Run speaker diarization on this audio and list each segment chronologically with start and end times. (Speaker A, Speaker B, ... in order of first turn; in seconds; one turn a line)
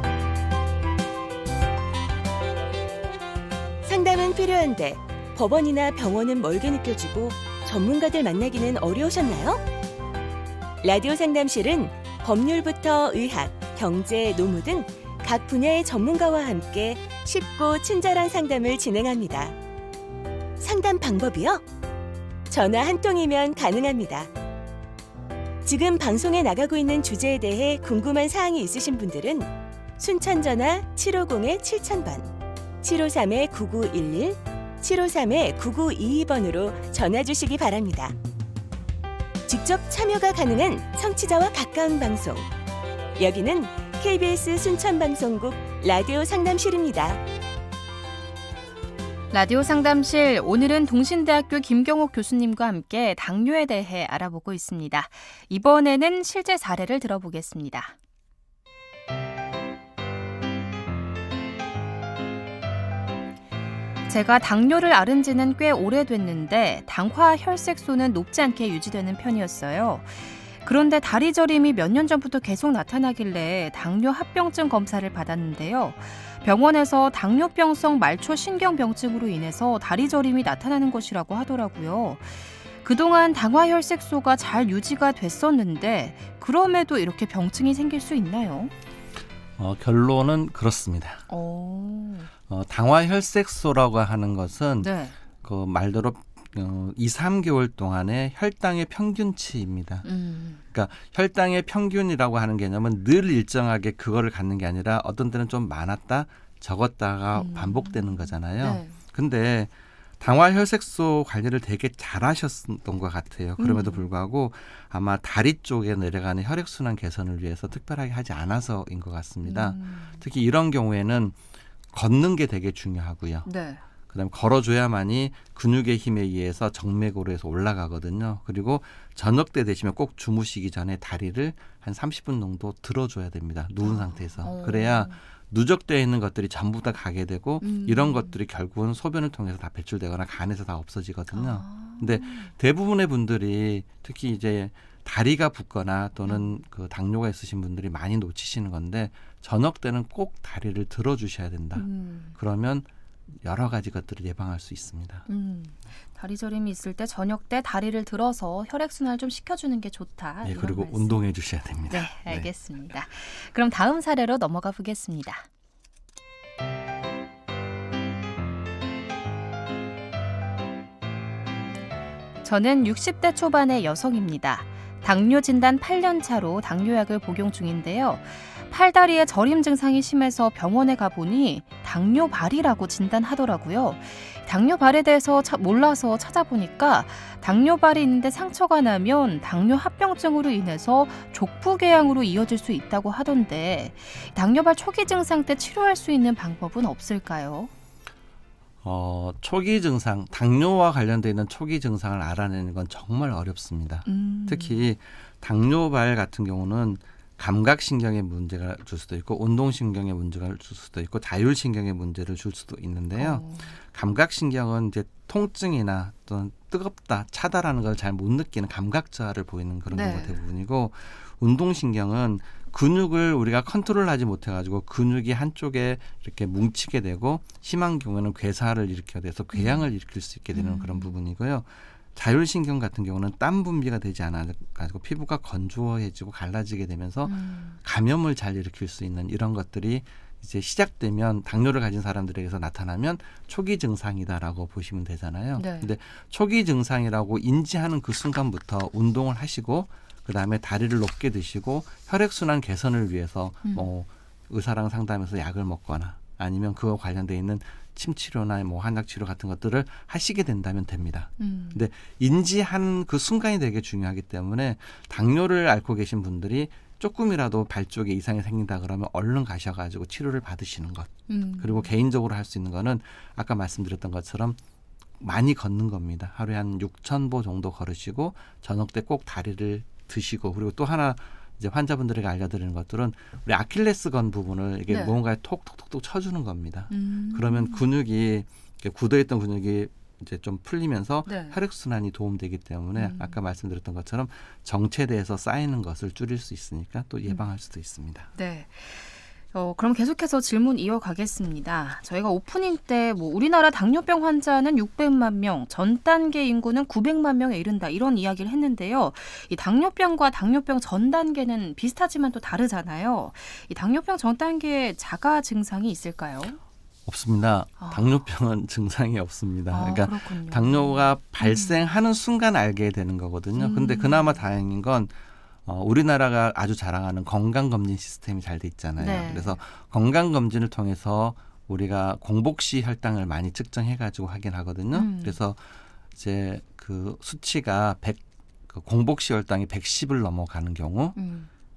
Speaker A: 3.8-9.6
Speaker A: 10.8-19.6
Speaker A: 20.6-21.6
Speaker A: 22.5-24.3
Speaker A: 25.6-38.1
Speaker A: 39.5-42.5
Speaker A: 43.2-47.2
Speaker B: 49.3-57.9
Speaker B: 64.1-88.7
Speaker C: 89.6-91.2
Speaker B: 91.3-92.3
Speaker C: 92.5-100.0
Speaker B: 94.8-95.2
Speaker B: 100.0-100.6
Speaker C: 100.7-121.3
Speaker B: 107.3-109.0
Speaker B: 113.6-114.1
Speaker B: 119.4-120.2
Speaker C: 121.9-123.5
Speaker B: 123.4-123.8
Speaker C: 124.1-152.8
Speaker B: 133.8-135.2
Speaker B: 137.6-138.3
Speaker B: 141.3-142.5
Speaker B: 146.2-146.5
Speaker B: 151.7-152.4
Speaker C: 153.4-155.3
Speaker B: 155.3-161.2
Speaker C: 160.4-162.5
Speaker B: 161.9-165.4
Speaker B: 172.4-197.7
Speaker C: 198.8-274.6
Speaker B: 204.1-204.9
Speaker B: 213.2-213.8
Speaker B: 219.9-220.4
Speaker B: 229.5-229.8
Speaker B: 230.5-231.1
Speaker B: 237.2-237.8
Speaker B: 245.6-245.9
Speaker B: 253.6-253.9
Speaker B: 261.4-261.8
Speaker B: 271.3-271.9
Speaker C: 275.2-298.3
Speaker B: 284.9-285.1
Speaker B: 286.9-287.8
Speaker B: 291.2-291.6
Speaker B: 292.9-293.4
Speaker B: 298.4-316.6
Speaker C: 317.1-325.1
Speaker B: 317.8-318.1
Speaker B: 319.7-321.8
Speaker B: 323.6-324.4
Speaker C: 325.6-335.6
Speaker B: 329.0-329.6
Speaker B: 334.9-335.4
Speaker C: 336.1-341.2
Speaker B: 341.1-341.5